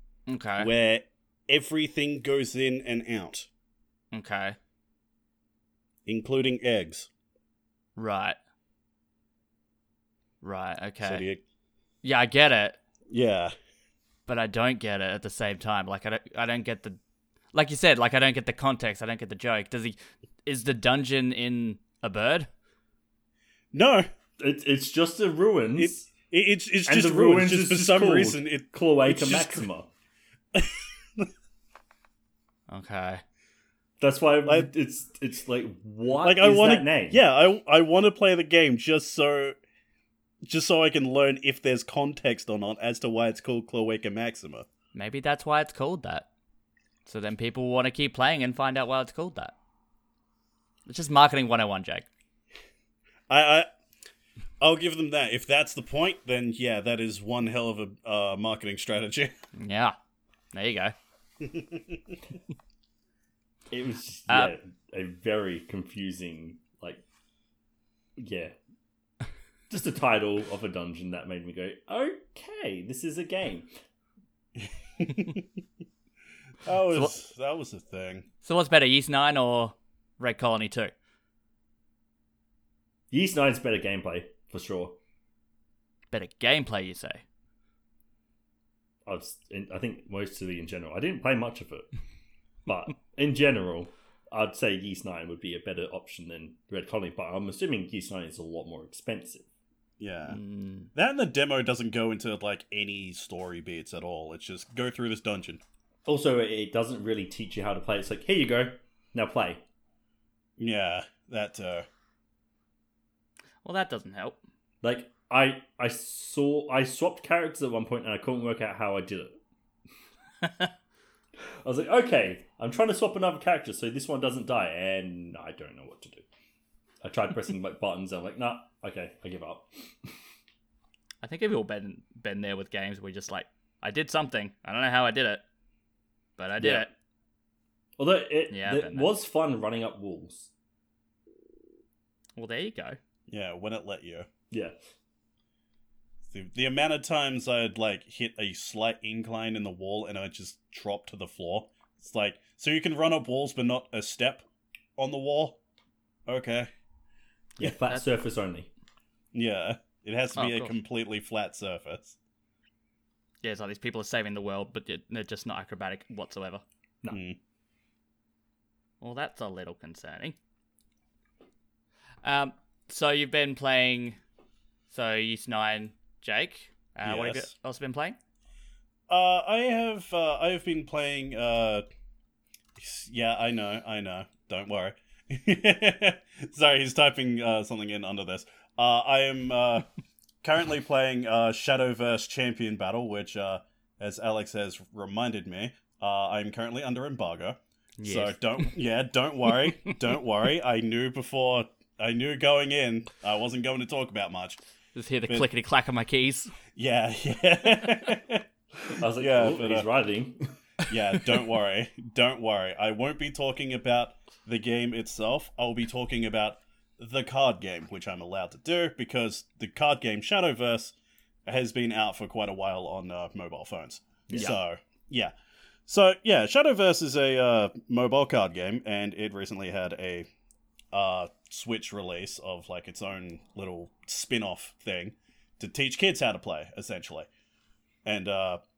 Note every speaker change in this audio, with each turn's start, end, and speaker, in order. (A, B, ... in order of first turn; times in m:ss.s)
0:00.3-0:00.7 A
0:00.6-0:03.5 B
0:04.1-0:04.6 A
0:06.1-0:07.1 B
0:08.0-0:08.4 A
0:10.4-0:11.2 A
0:11.0-0:11.4 B
0:12.0-0:12.8 A
0:13.1-0:13.5 B
0:14.3-0:17.0 A
0:17.5-0:22.5 A
0:23.7-0:24.1 B
0:24.4-0:26.1 C
0:25.8-0:29.7 B
0:26.9-0:29.9 C
0:30.5-0:31.3 B
0:32.7-0:33.2 A
0:34.0-0:37.2 C
0:34.4-0:34.7 B
0:36.2-0:39.6 B
0:40.5-0:44.7 B
0:44.9-0:46.3 A
0:47.1-0:49.5 A
0:50.9-0:52.1 A
0:53.3-0:53.7 B
0:54.6-0:59.4 B
0:59.6-1:00.0 A
1:00.5-1:00.9 A
1:01.4-1:02.2 B
1:03.7-1:07.0 C
1:08.2-1:08.5 C
1:09.7-1:13.7 C
1:14.6-1:15.5 B
1:16.6-1:18.3 B
1:18.4-1:20.9 A
1:23.1-1:25.0 C
1:26.1-1:27.2 A
1:29.1-1:31.9 C
1:32.7-1:39.5 C
1:40.0-1:40.4 B
1:40.3-1:40.9 A
1:40.9-1:45.6 B
1:46.1-1:49.6 C
1:50.6-1:51.9 B
1:53.6-1:54.4 A
1:54.8-1:59.4 C
2:00.4-2:00.7 A
2:01.6-2:06.3 C
2:07.0-2:10.2 C
2:11.2-2:15.4 A
2:16.4-2:16.9 A
2:16.6-2:16.9 C
2:18.0-2:20.5 C
2:18.5-2:19.1 A
2:22.4-2:23.0 A
2:23.3-2:24.3 B
2:24.5-2:24.8 C
2:26.3-2:34.5 B
2:35.0-2:35.6 B
2:36.3-2:36.7 B
2:37.6-2:38.7 C
2:37.6-2:38.1 A
2:39.3-2:42.2 B
2:40.4-2:40.7 A
2:43.4-2:46.6 A
2:47.1-2:47.4 B
2:49.0-2:50.4 A
2:52.2-2:54.2 A
2:54.9-2:58.2 A
2:57.0-2:57.5 B
2:59.1-3:01.8 B
3:02.8-3:09.9 B
3:10.4-3:24.6 B
3:18.0-3:18.7 A
3:24.9-3:26.6 A
3:26.8-3:28.5 B
3:28.8-3:30.6 C
3:29.2-3:29.9 B
3:30.9-3:41.0 B
3:41.5-3:45.3 B
3:44.3-3:44.5 C
3:45.9-3:50.3 B
3:50.9-3:57.3 B
3:58.0-3:58.6 B